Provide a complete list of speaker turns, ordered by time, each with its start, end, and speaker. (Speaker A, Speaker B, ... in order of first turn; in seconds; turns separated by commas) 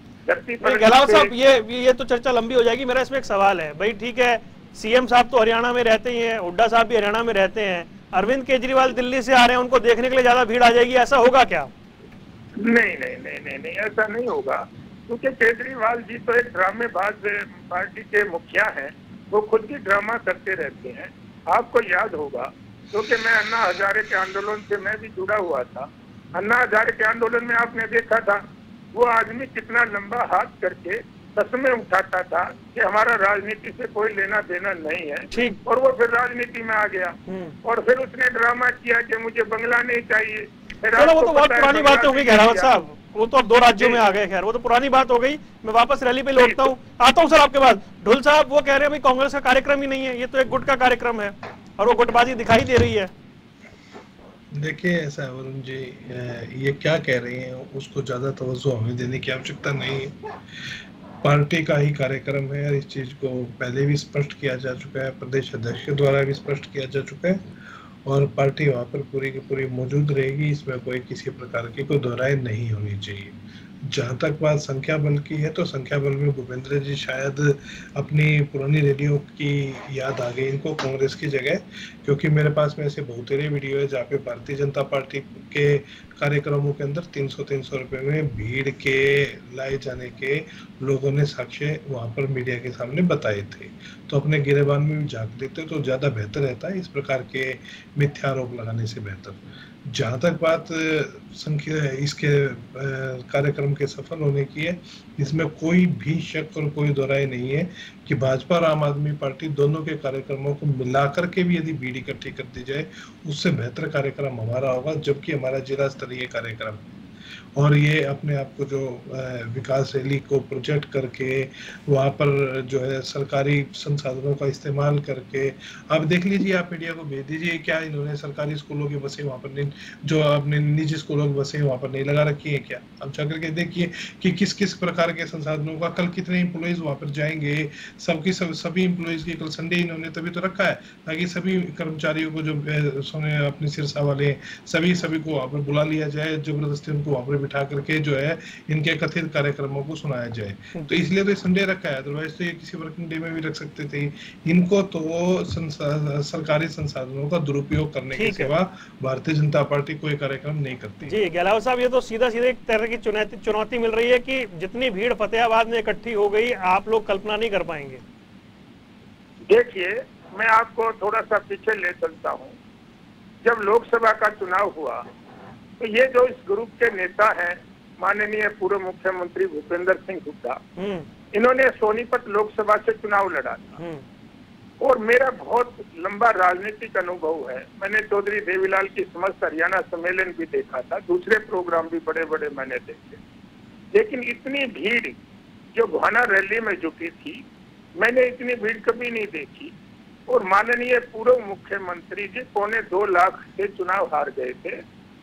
Speaker A: 0.3-1.3, Speaker B: 0.6-11.7, Speaker A: 12.6-28.4, Speaker A: 28.9-42.7, Speaker B: 35.3-35.6, Speaker B: 37.3-37.6, Speaker B: 41.0-53.1, Speaker A: 43.6-44.0, Speaker A: 46.4-46.7, Speaker C: 54.5-60.2, Speaker C: 61.2-67.4, Speaker C: 68.0-117.0, Speaker C: 117.6-161.2, Speaker B: 158.2-158.5, Speaker B: 161.1-168.0, Speaker A: 169.5-172.6, Speaker A: 173.4-175.0, Speaker A: 175.8-180.6, Speaker B: 180.8-181.1, Speaker A: 181.3-183.8, Speaker B: 183.8-184.0, Speaker A: 184.8-193.2, Speaker A: 193.9-195.2, Speaker A: 195.7-197.4, Speaker A: 198.0-199.7, Speaker A: 200.3-204.8